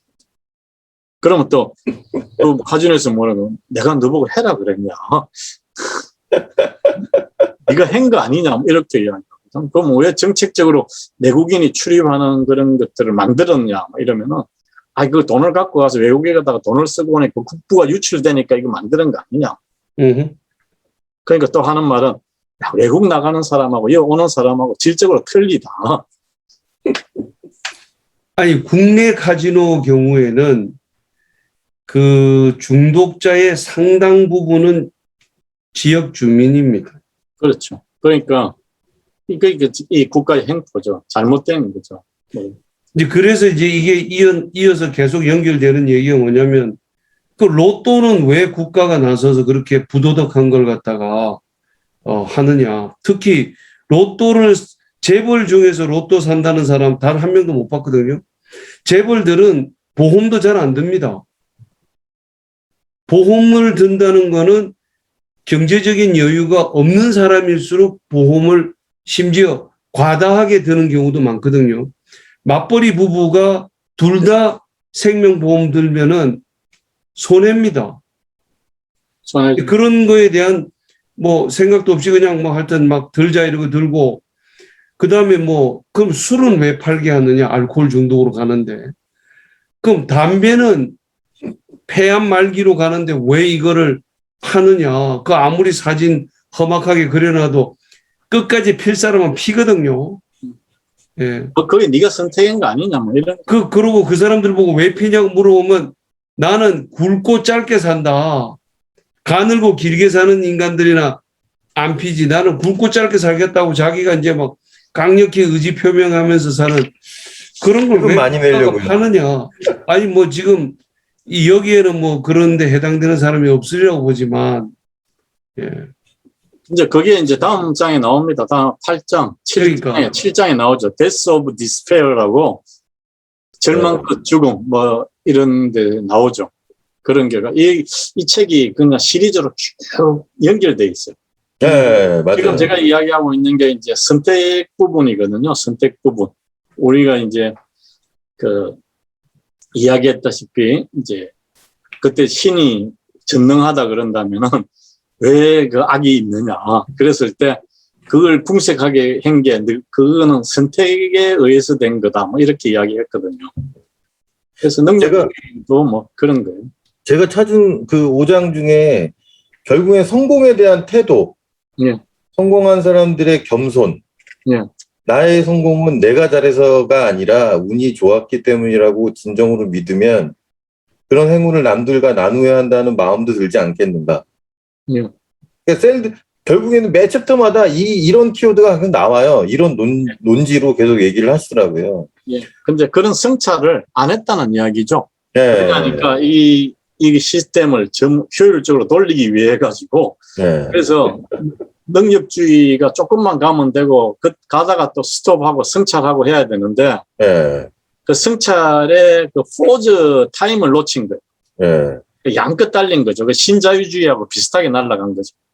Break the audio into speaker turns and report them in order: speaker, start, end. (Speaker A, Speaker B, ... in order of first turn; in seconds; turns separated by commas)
Speaker A: 1.2-6.0, Speaker A: 7.7-19.6, Speaker B: 20.0-20.4, Speaker A: 21.3-26.0, Speaker B: 28.4-30.7, Speaker B: 31.9-34.9, Speaker B: 35.7-37.0, Speaker A: 37.4-38.5, Speaker A: 39.3-42.6, Speaker B: 43.0-46.8, Speaker B: 47.4-51.4, Speaker B: 52.0-58.2, Speaker B: 58.9-61.2, Speaker B: 63.1-64.7, Speaker B: 65.5-71.9, Speaker B: 72.4-76.4, Speaker B: 77.2-78.0, Speaker A: 79.3-79.7, Speaker B: 79.6-84.2, Speaker B: 85.0-88.9, Speaker B: 89.8-91.0, Speaker B: 91.9-97.8, Speaker B: 98.3-100.2, Speaker B: 101.2-101.5, Speaker A: 101.6-103.5, Speaker B: 103.5-108.6, Speaker B: 109.2-111.2, Speaker B: 111.8-117.0, Speaker B: 117.6-124.7, Speaker C: 117.9-119.0, Speaker B: 125.6-125.9, Speaker A: 126.7-132.6, Speaker B: 129.6-130.1, Speaker A: 133.6-136.5, Speaker C: 133.7-134.1, Speaker A: 137.0-147.5, Speaker C: 141.6-142.7, Speaker A: 148.4-148.8, Speaker A: 149.7-151.3, Speaker A: 152.0-154.7, Speaker A: 155.2-163.5, Speaker A: 164.6-166.7, Speaker C: 165.0-165.3, Speaker C: 167.1-169.1, Speaker C: 169.7-171.4, Speaker C: 172.4-174.0, Speaker C: 175.1-180.3, Speaker C: 181.1-184.2, Speaker C: 185.7-192.1, Speaker A: 192.3-200.2, Speaker C: 195.3-196.1, Speaker C: 200.4-200.8, Speaker A: 200.7-207.0, Speaker C: 207.2-207.7, Speaker A: 208.1-211.2, Speaker C: 211.6-212.0, Speaker A: 212.2-215.3